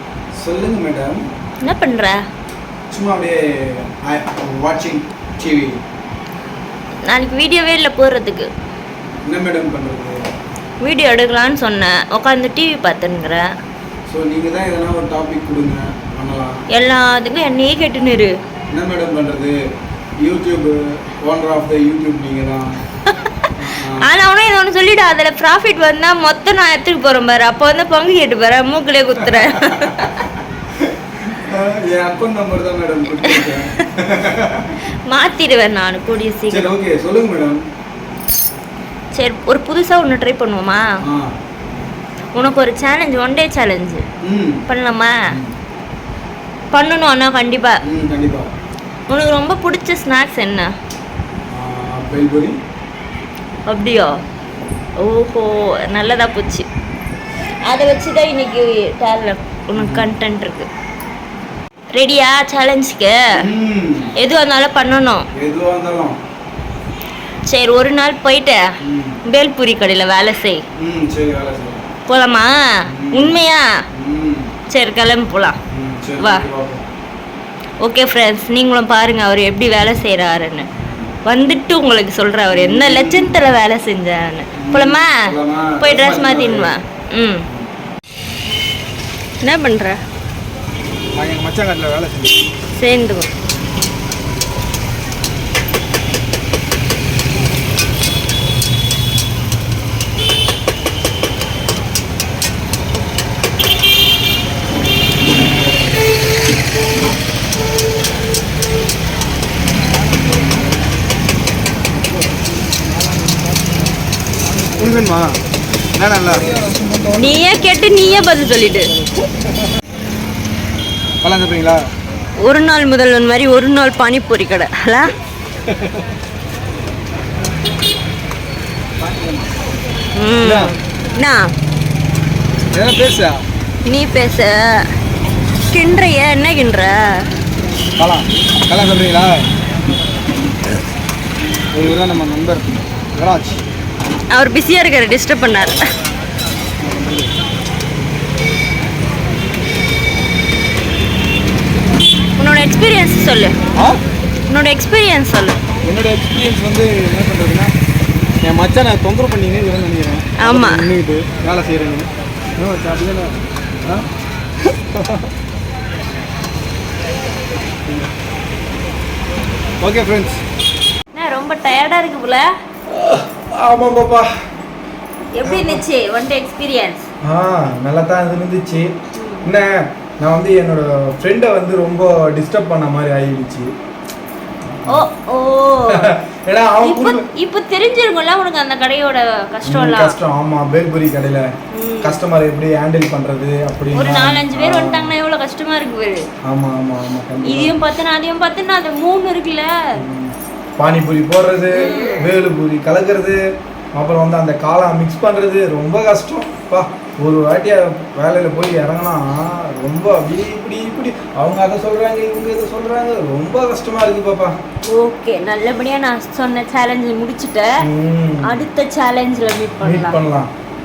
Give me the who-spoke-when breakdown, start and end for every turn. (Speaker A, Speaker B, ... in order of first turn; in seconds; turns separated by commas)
Speaker A: 0.3-1.2, Speaker B: 1.6-2.2, Speaker A: 2.9-5.8, Speaker B: 7.0-8.5, Speaker A: 9.3-10.3, Speaker B: 10.8-13.5, Speaker A: 14.1-16.6, Speaker B: 16.7-18.3, Speaker A: 18.7-19.6, Speaker A: 20.2-22.8, Speaker B: 23.2-30.1, Speaker A: 23.6-24.1, Speaker A: 29.2-34.8, Speaker B: 35.1-36.7, Speaker A: 36.5-37.6, Speaker B: 39.1-40.8, Speaker A: 41.0-41.3, Speaker B: 42.3-44.0, Speaker A: 44.2-44.6, Speaker B: 44.7-45.2, Speaker B: 46.7-47.8, Speaker A: 47.8-48.5, Speaker B: 49.1-50.7, Speaker A: 51.5-52.5, Speaker B: 53.7-54.1, Speaker B: 55.0-56.6, Speaker B: 57.6-60.7, Speaker A: 59.8-60.1, Speaker B: 61.9-63.4, Speaker A: 63.3-64.1, Speaker B: 64.2-65.2, Speaker A: 65.3-66.2, Speaker B: 67.5-68.6, Speaker A: 68.8-69.2, Speaker B: 69.2-70.6, Speaker A: 70.8-71.9, Speaker B: 72.1-73.7, Speaker A: 72.9-73.4, Speaker A: 73.9-74.5, Speaker B: 74.7-75.5, Speaker A: 75.7-76.8, Speaker B: 76.2-76.4, Speaker B: 77.8-80.7, Speaker B: 81.2-85.3, Speaker A: 82.5-83.4, Speaker A: 84.6-86.7, Speaker B: 85.8-87.4, Speaker B: 89.4-90.0, Speaker A: 91.2-92.3, Speaker B: 92.7-93.3, Speaker A: 114.6-115.3, Speaker A: 116.0-117.4, Speaker B: 117.2-118.9, Speaker A: 121.2-121.8, Speaker B: 122.4-125.1, Speaker A: 129.0-129.6, Speaker B: 130.2-131.5, Speaker A: 130.4-130.8, Speaker A: 132.7-133.4, Speaker B: 133.9-134.8, Speaker B: 135.7-137.3, Speaker A: 138.0-139.5, Speaker A: 141.7-143.6, Speaker B: 144.3-145.8, Speaker A: 146.8-147.3, Speaker B: 152.4-153.6, Speaker B: 154.5-155.6, Speaker A: 155.9-157.7, Speaker A: 158.4-163.3, Speaker B: 160.4-160.8, Speaker A: 164.7-165.2, Speaker A: 169.8-170.4, Speaker B: 171.1-172.5, Speaker A: 172.9-174.3, Speaker B: 175.4-177.1, Speaker A: 175.4-175.8, Speaker A: 177.2-178.9, Speaker B: 179.1-179.4, Speaker A: 179.4-183.7, Speaker A: 184.6-185.1, Speaker B: 184.9-186.1, Speaker A: 185.9-187.2, Speaker B: 186.8-190.2, Speaker A: 189.7-191.5, Speaker B: 191.7-192.2, Speaker A: 192.0-195.1, Speaker B: 193.9-196.2, Speaker A: 196.4-197.8, Speaker B: 197.4-199.7, Speaker A: 200.0-203.4, Speaker B: 201.7-202.3, Speaker A: 203.9-214.5, Speaker B: 214.9-217.7, Speaker A: 217.8-218.6, Speaker B: 218.4-220.2, Speaker A: 219.8-220.5